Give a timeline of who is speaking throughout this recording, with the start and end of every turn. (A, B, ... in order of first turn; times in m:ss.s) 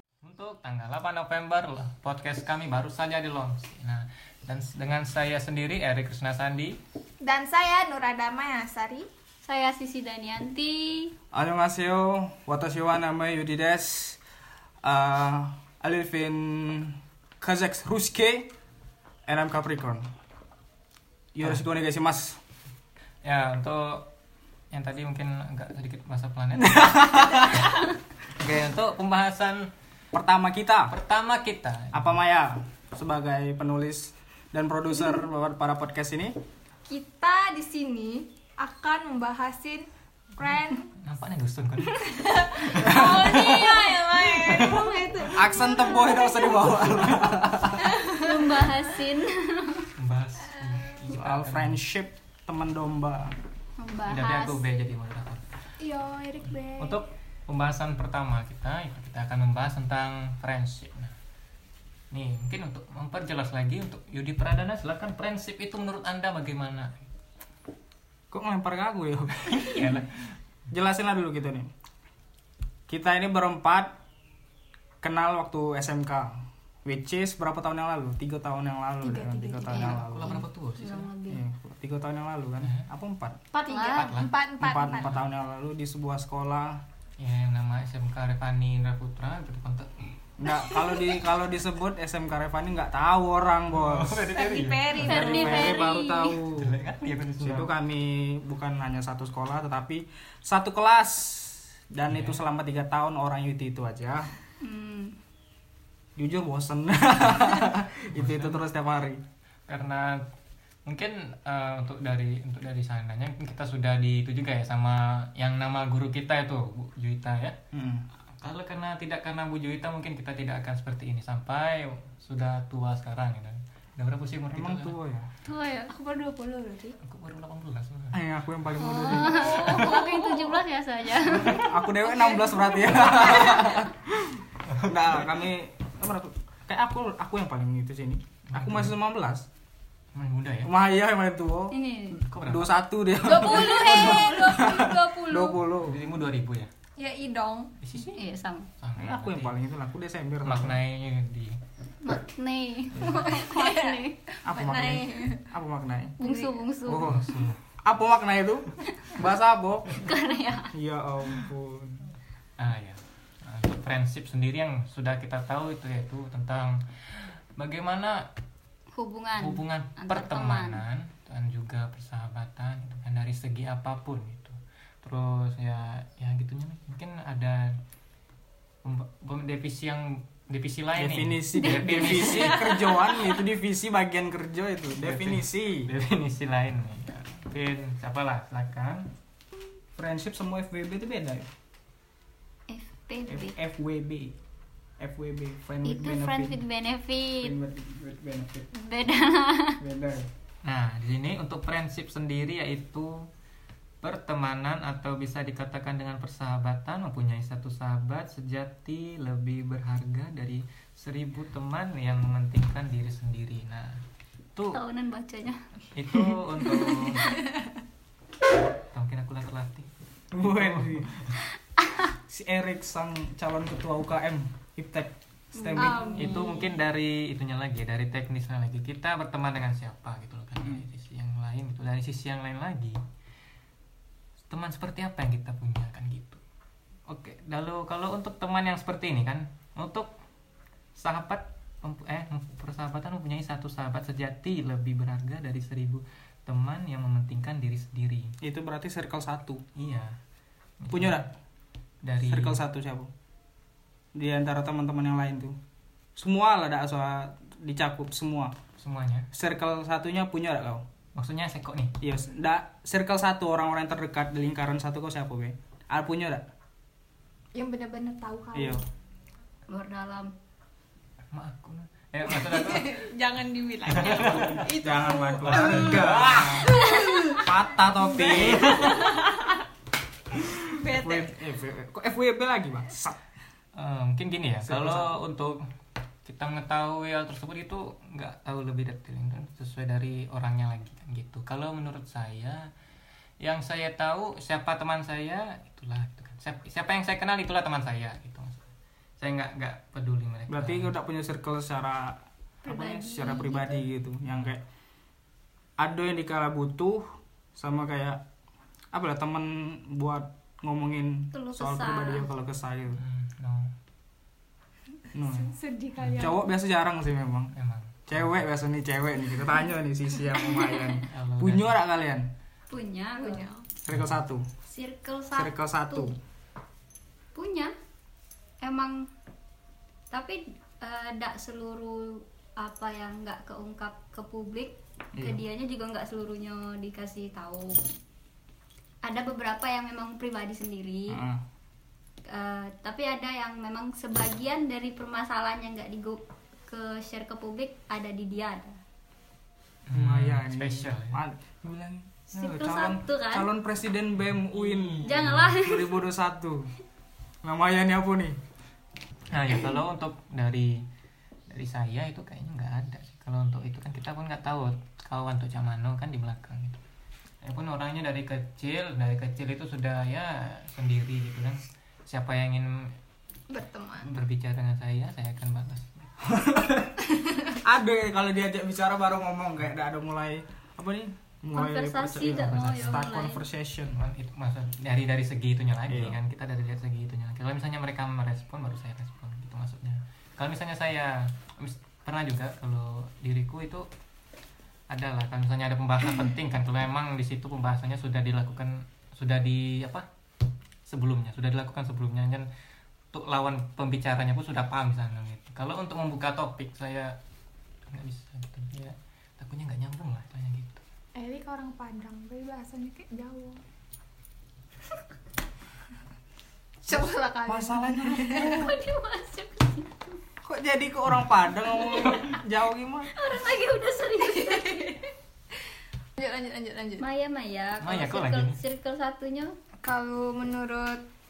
0:00.2-0:06.8 A
0:07.2-0:09.1 B
0:09.4-0:11.2 C
0:11.3-0:14.2 D
0:14.8-0:18.5 D
0:19.3-0:20.1 D
0:21.4-0:22.4 D
0:23.2-0:24.1 A
0:24.7-0:27.9 A
0:26.6-0:27.6 D
0:28.4-0:29.7 A
0:30.1-0:30.9 D
0:30.9-0:32.1 A
0:31.9-0:36.4 D
0:36.9-0:40.9 B
0:40.5-0:45.0 A
0:41.9-0:46.8 B
0:43.0-0:44.0 C
0:45.3-0:47.9 D
0:47.8-0:48.8 B
0:48.1-0:49.9 C
0:50.0-0:51.8 A
0:51.1-0:53.4 D
0:53.8-0:54.6 C
0:54.1-0:55.6 A
0:55.8-0:57.0 B
0:56.8-1:01.1 A
1:02.1-1:07.0 A
1:08.3-1:10.0 D
1:09.6-1:10.1 A
1:10.7-1:11.7 D
1:12.9-1:13.9 D
1:15.0-1:20.4 D
1:19.0-1:20.0 B
1:19.7-1:21.4 C
1:19.8-1:21.1 A
1:21.3-1:23.4 D
1:23.5-1:25.1 B
1:23.6-1:24.2 C
1:23.9-1:24.3 A
1:24.6-1:26.8 D
1:24.9-1:25.2 A
1:27.2-1:30.2 A
1:30.4-1:34.3 D
1:33.7-1:35.8 A
1:34.3-1:36.0 B
1:34.9-1:36.4 C
1:35.0-1:36.8 D
1:36.4-1:37.7 A
1:37.4-1:44.3 D
1:42.1-1:42.4 A
1:44.6-1:45.2 C
1:46.2-1:49.2 D
1:48.1-1:48.6 A
1:49.7-1:50.2 A
1:50.9-1:57.6 A
1:57.7-1:58.0 D
1:58.4-2:05.0 A
2:04.5-2:05.3 D
2:05.5-2:05.9 C
2:05.8-2:07.0 B
2:07.0-2:08.2 A
2:08.1-2:09.7 D
2:08.8-2:11.7 C
2:09.1-2:10.5 B
2:11.4-2:19.5 D
2:12.3-2:13.7 C
2:13.1-2:13.4 B
2:14.7-2:15.1 A
2:18.5-2:19.0 A
2:20.1-2:20.7 A
2:20.6-2:21.8 D
2:21.7-2:22.2 C
2:22.2-2:22.7 A
2:22.3-2:26.0 D
2:23.2-2:25.6 B
2:23.3-2:25.1 C
2:25.7-2:26.7 A
2:27.0-2:27.7 B
2:27.8-2:28.2 A
2:28.0-2:28.7 C
2:28.8-2:29.6 A
2:29.0-2:30.8 D
2:30.4-2:31.6 A
2:32.0-2:34.3 C
2:33.2-2:35.5 B
2:34.4-2:36.2 D
2:36.2-2:37.4 C
2:36.2-2:36.6 B
2:36.9-2:40.0 D
2:36.9-2:37.6 A
2:40.0-2:40.7 C
2:40.7-2:42.1 D
2:42.6-2:48.3 A
2:48.9-2:50.8 C
2:49.4-2:57.8 A
2:58.8-3:02.8 A
3:01.0-3:05.9 D
3:01.6-3:03.2 C
3:05.0-3:09.1 A
3:10.0-3:11.5 D
3:12.7-3:13.6 C
3:13.3-3:14.3 D
3:15.0-3:16.6 D
3:15.8-3:17.5 C
3:17.4-3:18.7 D
3:18.7-3:19.8 C
3:19.8-3:20.3 D
3:20.6-3:23.3 A
3:24.0-3:34.0 A
3:34.7-3:35.6 C
3:35.9-3:37.2 A
3:36.3-3:37.4 C
3:38.8-3:41.3 A
3:40.3-3:41.1 D
3:41.8-3:42.1 C
3:42.3-3:46.3 D
3:45.6-3:46.7 C
3:45.8-3:46.5 B
3:46.2-3:53.0 A
3:54.5-3:56.4 A
3:57.1-4:00.1 A
4:01.0-4:08.3 A
4:08.4-4:09.6 D
4:09.8-4:10.2 A
4:10.8-4:11.2 A
4:10.9-4:11.3 D
4:12.0-4:12.6 A
4:12.2-4:13.1 D
4:14.2-4:15.6 D
4:16.2-4:18.5 D
4:18.8-4:19.3 A
4:19.3-4:20.8 D
4:21.2-4:22.0 A
4:22.0-4:26.4 D
4:27.6-4:28.8 B
4:28.6-4:28.8 D
4:29.7-4:30.3 C
4:31.3-4:33.0 A
4:32.3-4:39.6 B
4:33.9-4:34.7 A
4:34.8-4:36.8 D
4:35.4-4:36.7 A
4:37.3-4:38.9 D
4:38.4-4:38.9 A
4:40.4-4:43.2 D
4:40.8-4:41.3 B
4:43.7-4:45.6 A
4:44.6-4:45.1 D
4:46.2-4:52.7 A
4:53.4-4:58.7 A
4:59.2-5:00.9 A
5:00.5-5:04.6 D
5:02.6-5:03.8 C
5:05.8-5:08.2 D
5:08.9-5:13.0 D
5:11.3-5:12.3 C
5:13.0-5:13.7 A
5:15.1-5:15.5 D
5:15.2-5:16.4 B
5:16.0-5:16.3 A
5:16.2-5:17.5 D
5:17.5-5:18.3 A
5:18.1-5:22.3 D
5:20.4-5:20.9 C
5:21.0-5:21.8 A
5:22.7-5:23.5 C
5:23.2-5:23.7 B
5:23.8-5:24.5 D
5:23.9-5:24.2 A
5:24.6-5:26.1 C
5:25.3-5:26.2 D
5:27.4-5:27.7 C
5:28.6-5:29.1 C
5:30.1-5:37.8 C
5:35.2-5:35.4 D
5:39.0-5:41.2 C
5:41.1-5:41.4 D
5:42.3-5:48.8 C
5:49.9-5:51.2 A
5:49.9-5:56.7 D
5:52.3-5:53.5 C
5:54.3-5:55.6 A
5:55.0-5:56.0 C
5:57.4-5:58.4 D
5:59.3-6:00.9 A
6:01.5-6:06.8 A
6:07.4-6:13.0 A
6:13.5-6:14.1 B
6:14.0-6:16.1 A
6:16.2-6:17.0 D
6:17.1-6:17.5 B
6:17.5-6:24.0 D
6:21.5-6:23.4 C
6:22.4-6:23.0 A
6:24.0-6:33.9 A
6:25.9-6:26.2 D
6:34.9-6:40.1 A
6:40.9-6:42.5 A
6:43.1-6:47.2 A
6:47.9-6:50.8 A
6:51.2-6:53.6 B
6:56.8-6:58.6 B
6:57.5-6:58.8 D
6:58.3-7:00.0 C
7:00.4-7:03.1 D
7:01.8-7:02.2 C
7:03.1-7:05.1 C
7:04.4-7:04.8 B
7:06.2-7:07.0 B
7:07.0-7:09.6 C
7:07.8-7:08.6 A
7:09.8-7:11.0 B